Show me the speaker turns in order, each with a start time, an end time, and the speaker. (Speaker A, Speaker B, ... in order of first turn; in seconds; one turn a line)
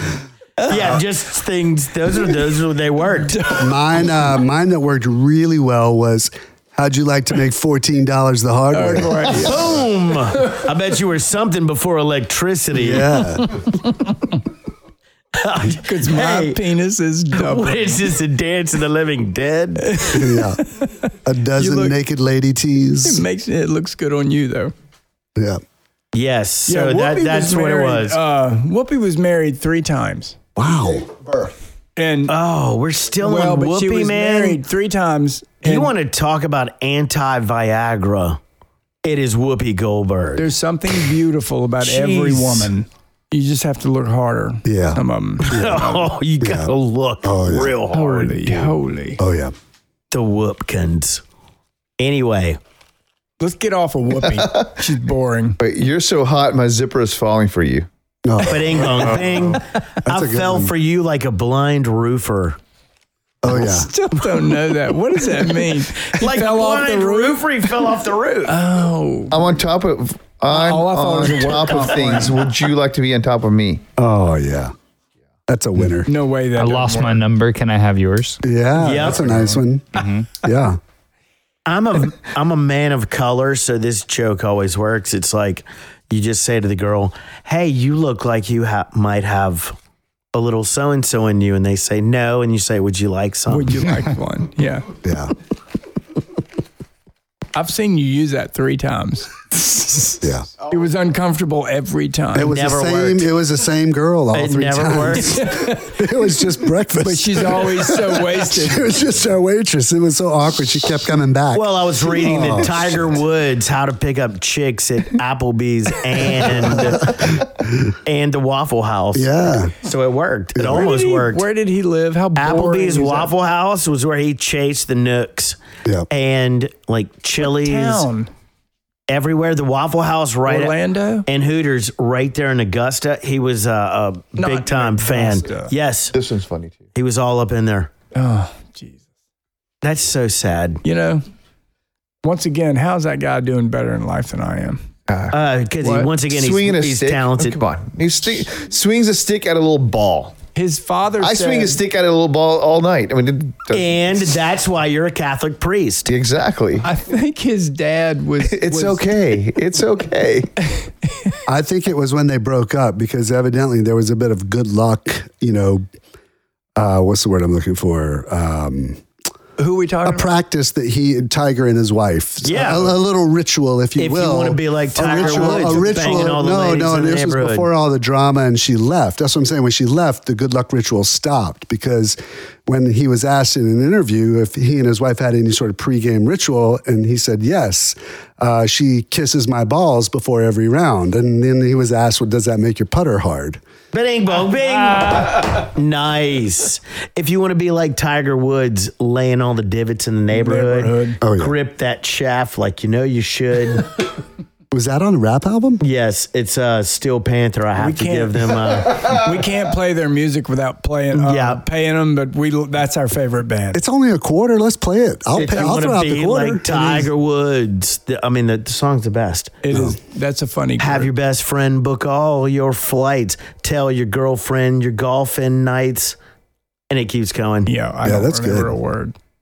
Speaker A: 0.6-1.0
Speaker B: 0.7-3.4
Speaker A: 3.3-3.7
Speaker C: 3.6-9.7
Speaker A: 8.7-9.7
Speaker B: 9.3-13.2
Speaker C: 12.7-13.5
Speaker B: 15.3-16.6
Speaker A: 15.7-18.0
Speaker B: 17.3-20.0
Speaker A: 19.8-22.0
Speaker C: 20.1-20.6
Speaker C: 21.2-23.2
Speaker A: 23.0-24.7
Speaker B: 26.1-28.2
Speaker A: 26.7-30.4
Speaker C: 30.6-31.1
Speaker A: 32.0-32.3
Speaker B: 32.3-34.6
Speaker A: 33.2-35.9
Speaker B: 35.6-38.4
Speaker B: 39.0-40.4
Speaker A: 40.4-46.1
Speaker B: 41.8-42.7
Speaker C: 44.6-46.7
Speaker B: 45.4-48.7
Speaker C: 47.2-47.7
Speaker A: 47.9-49.2
Speaker C: 49.2-49.5
Speaker B: 50.1-51.2
Speaker B: 52.0-52.6
Speaker A: 53.4-55.6
Speaker D: 54.2-54.7
Speaker D: 55.6-57.9
Speaker C: 58.2-59.4
Speaker B: 58.4-62.6
Speaker C: 60.0-60.7
Speaker C: 63.4-63.9
Speaker A: 63.5-67.4
Speaker B: 66.0-68.5
Speaker A: 68.5-69.5
Speaker D: 69.3-73.8
Speaker A: 70.5-72.4
Speaker C: 74.0-74.7
Speaker C: 75.5-76.1
Speaker A: 76.1-77.2
Speaker E: 76.6-78.4
Speaker C: 78.4-80.8
Speaker B: 78.8-79.6
Speaker E: 79.9-80.3
Speaker B: 81.7-89.8
Speaker B: 90.3-93.8
Speaker A: 93.5-94.9
Speaker C: 95.0-95.3
Speaker A: 97.5-102.5
Speaker C: 100.2-100.5
Speaker C: 102.3-113.2
Speaker B: 102.5-103.3
Speaker B: 104.3-105.4
Speaker A: 105.3-106.0
Speaker A: 107.0-108.9
Speaker B: 111.5-117.4
Speaker C: 117.0-117.9
Speaker B: 118.0-121.4
Speaker C: 119.1-119.7
Speaker C: 120.5-120.8
Speaker A: 120.7-123.3
Speaker B: 122.4-125.6
Speaker B: 126.1-128.1
Speaker A: 127.4-128.3
Speaker B: 129.1-130.7
Speaker A: 130.4-131.3
Speaker B: 131.2-136.1
Speaker A: 134.4-135.7
Speaker D: 136.1-136.8
Speaker B: 136.9-137.9
Speaker A: 138.1-139.0
Speaker B: 139.8-140.8
Speaker A: 140.8-141.2
Speaker A: 142.2-144.8
Speaker D: 145.1-145.3
Speaker B: 145.3-147.6
Speaker A: 145.8-146.1
Speaker D: 146.3-150.3
Speaker A: 150.5-151.8
Speaker D: 151.2-154.2
Speaker B: 153.7-156.1
Speaker D: 156.1-156.8
Speaker A: 156.8-159.1
Speaker D: 158.4-160.5
Speaker C: 161.5-165.8
Speaker C: 166.8-169.0
Speaker A: 169.6-170.3
Speaker C: 170.0-193.6
Speaker B: 172.4-172.9
Speaker B: 174.0-177.7
Speaker A: 175.2-176.1
Speaker B: 193.9-203.9
Speaker A: 200.3-201.2
Speaker C: 201.2-201.5
Speaker C: 204.7-205.8
Speaker B: 205.8-209.2
Speaker A: 207.8-213.8
Speaker B: 211.1-211.6
Speaker C: 213.7-217.1
Speaker B: 215.3-219.6
Speaker A: 219.6-221.1
Speaker B: 220.8-226.2
Speaker B: 226.9-227.7
Speaker A: 227.7-229.1
Speaker C: 228.0-228.7